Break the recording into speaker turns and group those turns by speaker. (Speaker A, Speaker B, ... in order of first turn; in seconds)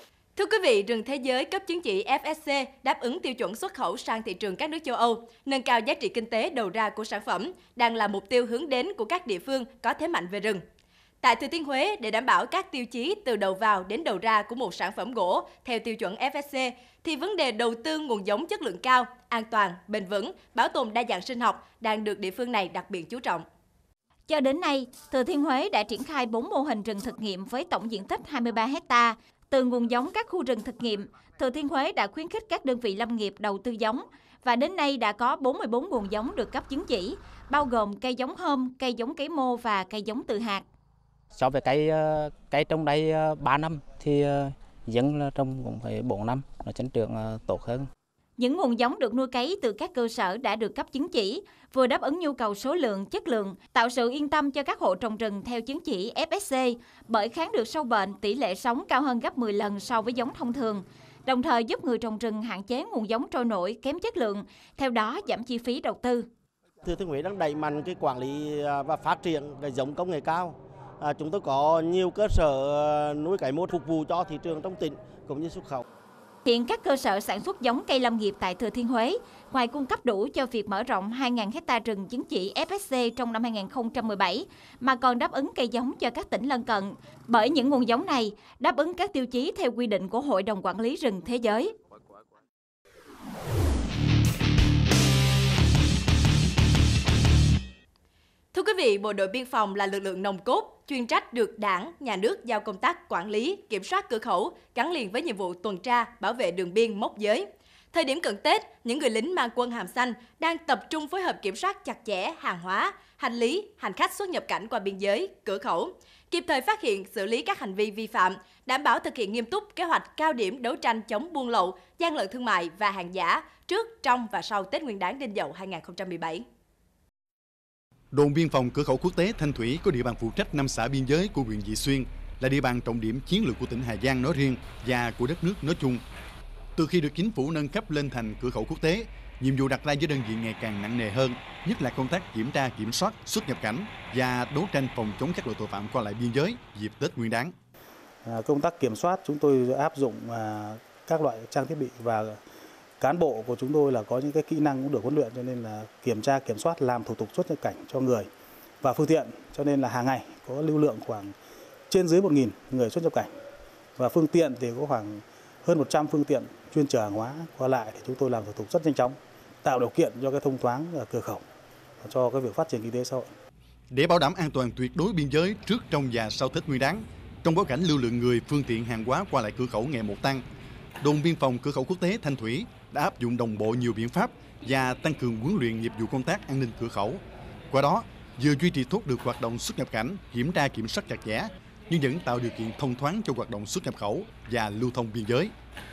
Speaker A: 0.4-10.6, 11.2-23.4, 98.5-126.5
Speaker B: 24.3-40.6, 48.4-66.3, 76.5-91.7
Speaker C: 41.4-47.9
Speaker D: 66.8-75.8
Speaker E: 128.1-136.0, 136.8-147.5, 173.9-180.4, 181.0-195.5
Speaker F: 148.2-152.4, 153.0-158.3, 158.8-161.3, 161.9-163.3, 164.0-171.4, 172.0-173.3